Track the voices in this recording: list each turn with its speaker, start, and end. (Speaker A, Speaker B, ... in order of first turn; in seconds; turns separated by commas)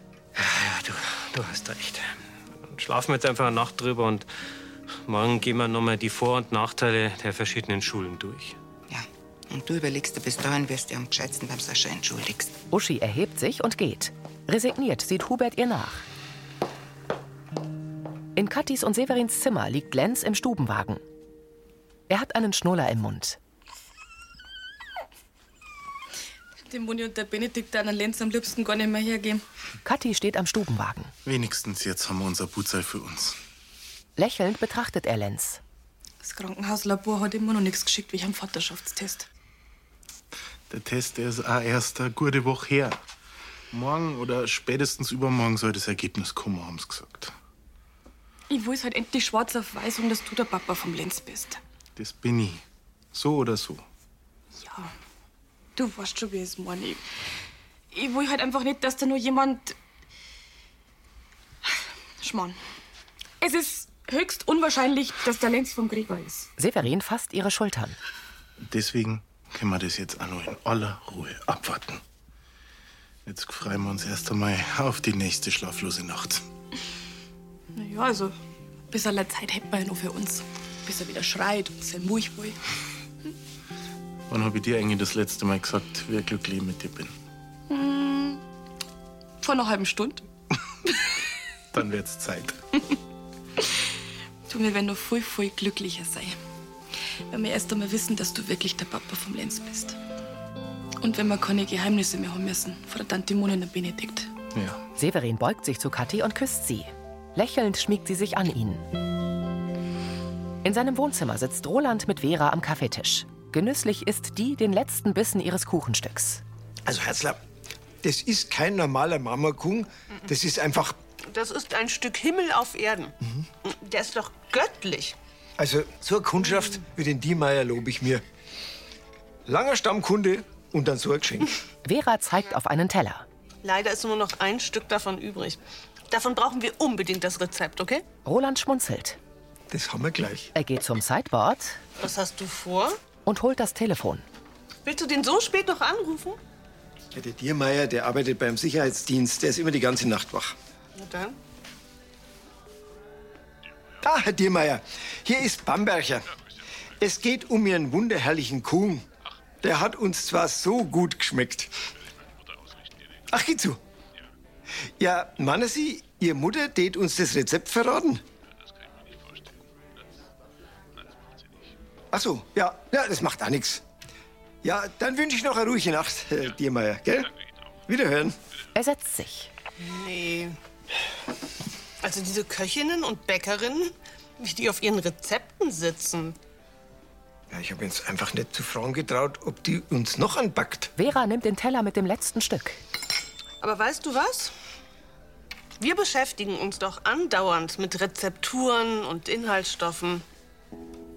Speaker A: 0.3-2.1, Speaker A: 2.6-4.3, Speaker A: 5.1-8.6, Speaker B: 8.9-12.6, Speaker C: 12.7-16.1, Speaker C: 18.4-21.0, Speaker C: 22.1-23.4, Speaker D: 26.6-29.4, Speaker C: 29.8-31.1, Speaker E: 31.2-33.4, Speaker C: 34.2-35.6, Speaker D: 36.2-39.3, Speaker E: 40.7-43.0, Speaker E: 43.7-47.3, Speaker D: 48.5-51.6, Speaker E: 52.0-53.9, Speaker D: 54.5-54.9, Speaker D: 55.8-57.0, Speaker D: 57.9-59.8, Speaker D: 62.2-62.6, Speaker D: 63.4-66.5, Speaker C: 66.6-68.0, Speaker E: 68.6-72.0, Speaker E: 73.3-76.5, Speaker D: 77.8-78.4, Speaker D: 78.9-82.6, Speaker E: 84.3-87.1, Speaker D: 87.7-88.4, Speaker D: 89.4-90.3, Speaker E: 91.7-92.6, Speaker D: 94.5-96.4, Speaker D: 97.3-100.0, Speaker D: 101.0-104.3, Speaker E: 104.5-104.8, Speaker C: 105.0-108.8, Speaker C: 110.6-116.4, Speaker F: 116.8-117.4, Speaker F: 118.0-121.0, Speaker G: 121.2-125.2, Speaker F: 125.6-128.2, Speaker F: 129.5-131.5, Speaker C: 131.8-133.2, Speaker G: 133.6-138.0, Speaker C: 138.2-139.2, Speaker F: 139.7-140.5, Speaker C: 140.6-141.8, Speaker G: 142.0-143.0, Speaker C: 143.2-144.2, Speaker G: 144.8-146.4, Speaker F: 147.1-150.5, Speaker G: 151.0-151.4, Speaker F: 154.0-156.3, Speaker F: 157.0-159.1, Speaker F: 159.6-161.7, Speaker F: 163.3-163.8, Speaker F: 165.0-168.2, Speaker F: 172.1-173.8, Speaker F: 174.6-177.3, Speaker F: 177.9-178.3, Speaker C: 178.8-179.5, Speaker G: 179.8-180.6, Speaker G: 182.0-186.4, Speaker F: 187.5-190.9, Speaker C: 191.0-192.8, Speaker G: 193.6-194.5, Speaker G: 195.8-200.2